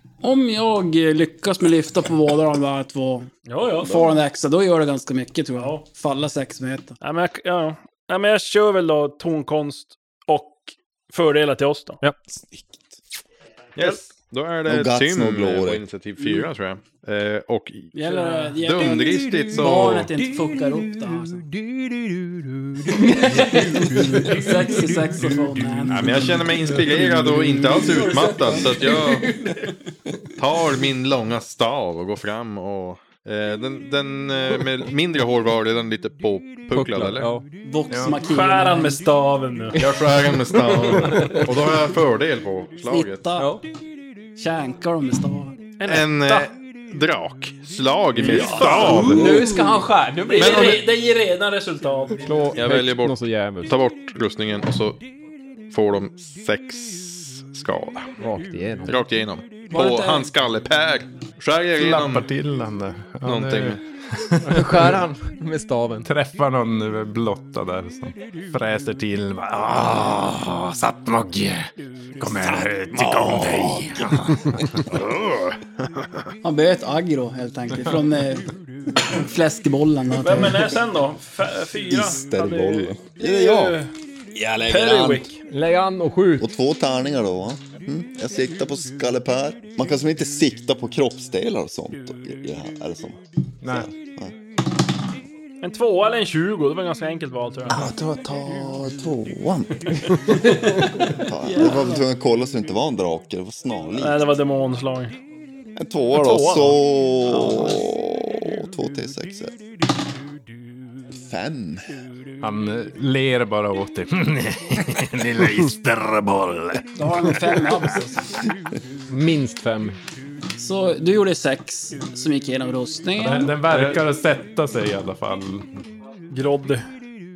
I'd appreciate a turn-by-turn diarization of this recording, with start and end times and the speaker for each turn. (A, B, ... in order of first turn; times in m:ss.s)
0:00.2-0:07.0 A
0:03.5-0:04.1 B
0:05.6-0:05.8 B
0:07.0-0:12.0 B
0:12.5-0:12.8 C
0:13.8-0:18.0 D
0:13.8-0:14.0 B
0:14.6-0:15.8 C
0:17.9-0:21.5 A
0:18.1-0:18.5 B
0:18.6-0:20.1 D
0:22.9-0:24.5 E
0:23.0-0:26.3 A
0:25.9-0:29.3 D
0:27.7-0:29.7 A
0:30.4-0:37.3 D
0:36.7-0:37.4 E
0:37.6-0:39.0 A
0:38.2-0:39.8 B
0:39.8-0:43.3 D
0:40.8-0:41.5 E
0:42.9-0:43.6 A
0:43.4-0:43.6 E
0:44.4-0:45.6 A
0:45.8-0:46.5 B
0:45.8-0:49.4 D
0:48.2-0:49.5 B
0:48.3-0:48.8 A
0:48.3-0:50.8 E
0:50.3-0:52.4 B
0:50.4-0:50.8 D
0:52.2-0:53.7 E
0:52.6-0:55.0 D
0:55.7-0:58.1 D
0:58.2-0:59.0 E
0:58.9-1:02.3 D
0:59.7-1:00.3 A
1:01.8-1:05.0 F
1:03.2-1:03.8 D
1:04.5-1:06.1 E
1:06.0-1:14.9 F
1:13.0-1:13.9 C
1:14.9-1:15.2 D
1:16.4-1:18.5 A
1:19.1-1:20.7 A
1:20.2-1:23.9 B
1:21.9-1:23.8 C
1:24.3-1:25.3 C
1:24.6-1:25.4 B
1:25.5-1:26.5 E
1:26.4-1:34.3 C
1:33.6-1:33.9 F
1:35.6-1:37.8 B
1:37.7-1:44.2 C
1:41.4-1:42.0 A
1:44.0-1:45.1 B
1:45.8-1:49.6 C
1:46.1-1:46.8 B
1:51.1-1:51.9 C
1:52.4-1:57.4 F
1:57.0-1:58.3 A
1:59.1-2:00.0 E
2:00.6-2:03.6 A
2:03.2-2:05.7 F
2:06.3-2:06.8 B